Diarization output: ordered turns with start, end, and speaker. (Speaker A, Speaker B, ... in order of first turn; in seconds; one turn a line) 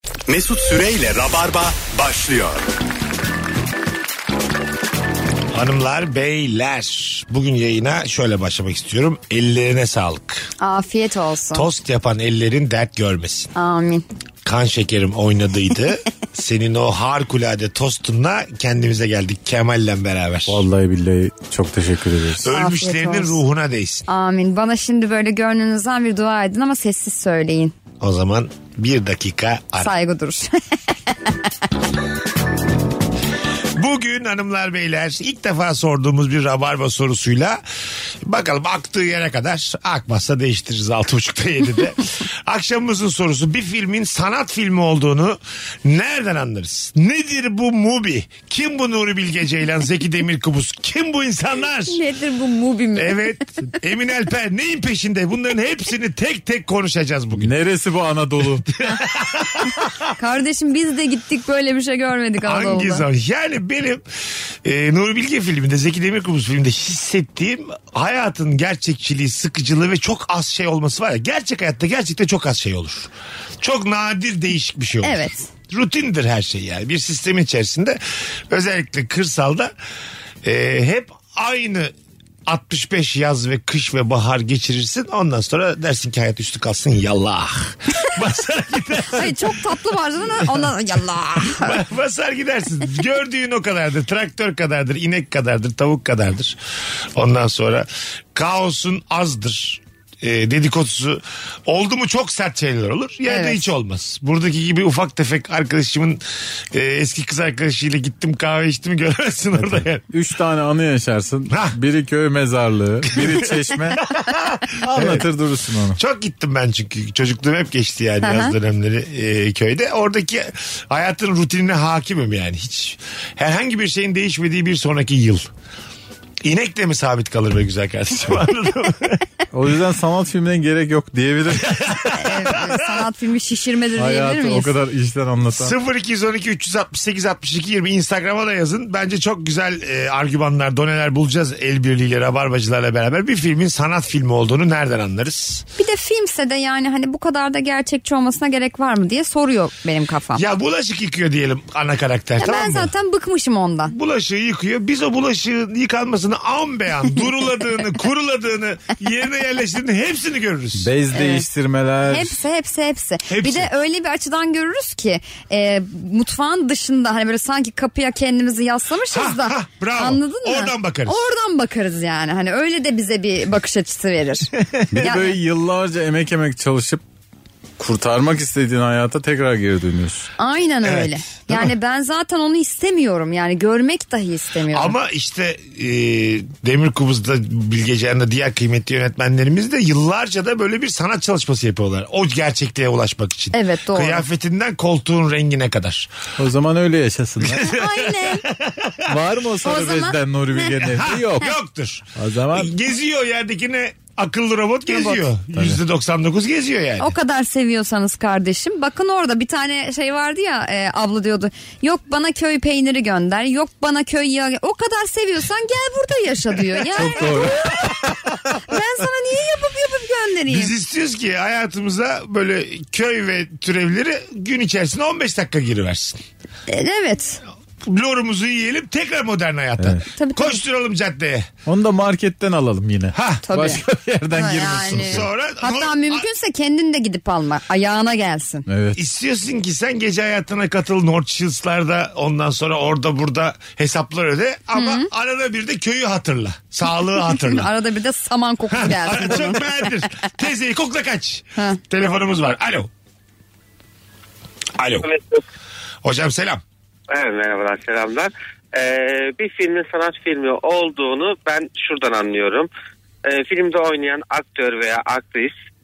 Speaker A: 0.3-2.6
Speaker B: 5.5-10.5
Speaker C: 10.6-11.7
Speaker B: 11.5-13.5
Speaker C: 13.6-14.1
Speaker B: 14.4-20.6
Speaker D: 20.5-22.5
Speaker B: 22.4-24.1
Speaker C: 22.5-23.4
Speaker C: 24.1-27.7
Speaker B: 28.0-29.9
Speaker C: 29.8-30.5
Speaker B: 33.8-37.6
Speaker B: 38.2-52.0
Speaker C: 51.9-53.4
Speaker B: 53.0-57.5
Speaker D: 57.4-58.7
Speaker B: 58.7-60.0
Speaker C: 60.2-63.0
Speaker B: 62.4-64.0
Speaker B: 64.6-79.7
Speaker C: 75.0-75.5
Speaker B: 80.4-81.9
Speaker B: 82.5-89.6
Speaker C: 89.1-91.8
Speaker B: 90.3-90.7
Speaker B: 91.4-96.6
Speaker B: 97.1-110.0
Speaker C: 103.3-103.7
Speaker D: 109.6-114.0
Speaker B: 111.5-111.8
Speaker B: 113.1-115.3
Speaker D: 114.8-116.0
Speaker B: 116.0-125.5
Speaker C: 118.2-118.5
Speaker B: 126.4-129.3
Speaker D: 129.5-132.7
Speaker B: 131.7-132.9
Speaker C: 132.1-134.7
Speaker D: 134.0-135.8
Speaker B: 135.5-145.7
Speaker C: 145.8-150.4
Speaker B: 150.3-152.9
Speaker C: 152.4-153.9
Speaker B: 153.9-160.9
Speaker D: 160.8-162.4
Speaker C: 161.1-161.5
Speaker C: 162.1-174.5
Speaker B: 163.3-163.7
Speaker B: 169.1-171.2
Speaker B: 174.6-175.2
Speaker D: 174.9-177.0
Speaker C: 175.0-175.3
Speaker D: 177.8-180.3
Speaker C: 180.4-184.9
Speaker B: 180.8-181.7
Speaker B: 184.7-196.1
Speaker C: 193.5-194.2
Speaker D: 196.4-197.7
Speaker B: 197.4-199.2
Speaker C: 197.6-198.4
Speaker D: 199.1-201.5
Speaker C: 199.6-200.7
Speaker B: 200.8-207.1
Speaker D: 202.2-202.7
Speaker D: 205.5-205.8
Speaker C: 207.0-217.9
Speaker D: 216.9-218.3
Speaker B: 217.3-217.6
Speaker C: 218.7-220.7
Speaker B: 220.5-226.2
Speaker C: 226.7-227.4
Speaker B: 227.8-231.5
Speaker D: 229.8-230.0
Speaker C: 230.2-230.6
Speaker D: 231.7-235.3
Speaker B: 233.1-233.5
Speaker C: 233.4-238.7
Speaker B: 234.9-236.3
Speaker D: 238.7-239.0
Speaker B: 238.9-247.7
Speaker C: 244.7-245.1
Speaker C: 247.1-249.9
Speaker B: 248.7-252.9
Speaker B: 254.8-255.1
Speaker E: 255.0-255.4
Speaker B: 256.0-256.6
Speaker E: 257.1-262.7
Speaker E: 263.2-265.5